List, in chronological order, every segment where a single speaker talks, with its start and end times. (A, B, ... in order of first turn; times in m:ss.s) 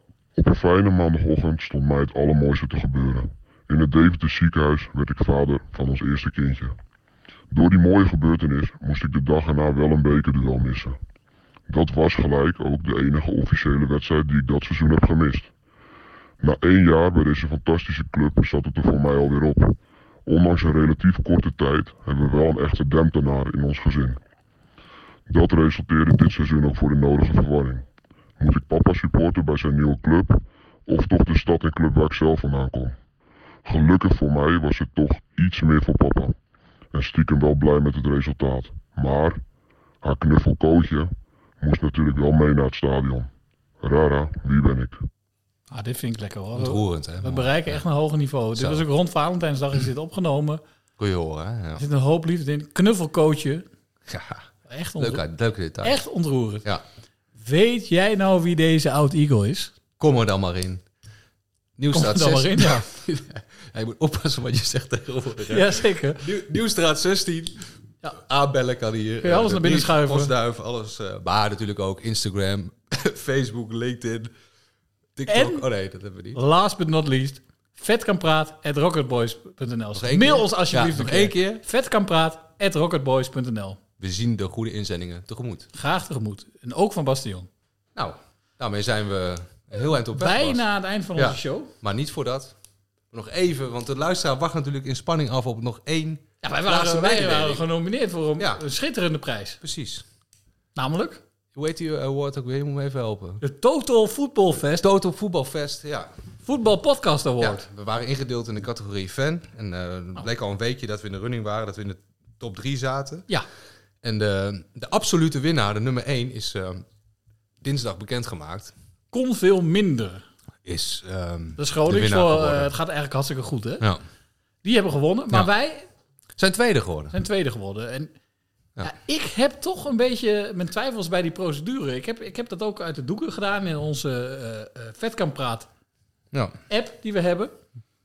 0:00.4-0:06.8 A
0:07.5-0:11.0 A
0:11.7-0:15.5 A
0:16.4-0:24.2 A
0:25.3-0:27.9 A
0:28.4-0:33.0 A
0:33.6-0:36.4 A
0:36.9-0:39.4 A
0:40.0-0:43.3 A
0:43.8-0:45.0 A
0:45.7-0:50.6 B
0:46.5-0:47.8 C
0:48.6-0:48.9 C
0:51.0-0:51.8 C
0:51.8-0:53.7 B
0:54.1-0:56.0 C
0:54.7-0:55.2 B
0:55.8-0:56.7 B
0:57.4-0:59.8 B
1:00.0-1:00.8 C
1:01.8-1:14.3 C
1:01.9-1:02.8 B
1:05.5-1:06.2 B
1:09.2-1:10.3 B
1:15.2-1:16.4 C
1:15.3-1:15.6 B
1:16.3-1:23.8 B
1:20.0-1:21.4 C
1:24.0-1:25.7 C
1:25.7-1:27.5 B
1:28.0-1:30.6 C
1:30.1-1:31.7 B
1:31.2-1:32.5 C
1:33.1-1:37.6 C
1:36.4-1:39.6 B
1:39.6-1:40.0 C
1:40.8-1:41.2 B
1:41.6-1:43.4 C
1:43.4-1:44.9 B
1:44.8-1:46.1 C
1:46.4-1:47.6 B
1:47.4-1:53.3 C
1:54.0-1:56.8 C
1:57.6-1:58.7 C
1:59.1-2:00.2 B
2:00.6-2:02.8 C
2:01.6-2:03.8 B
2:04.6-2:05.9 B
2:06.4-2:07.2 C
2:07.1-2:08.1 B
2:08.8-2:15.7 B
2:16.3-2:16.6 C
2:16.7-2:17.6 B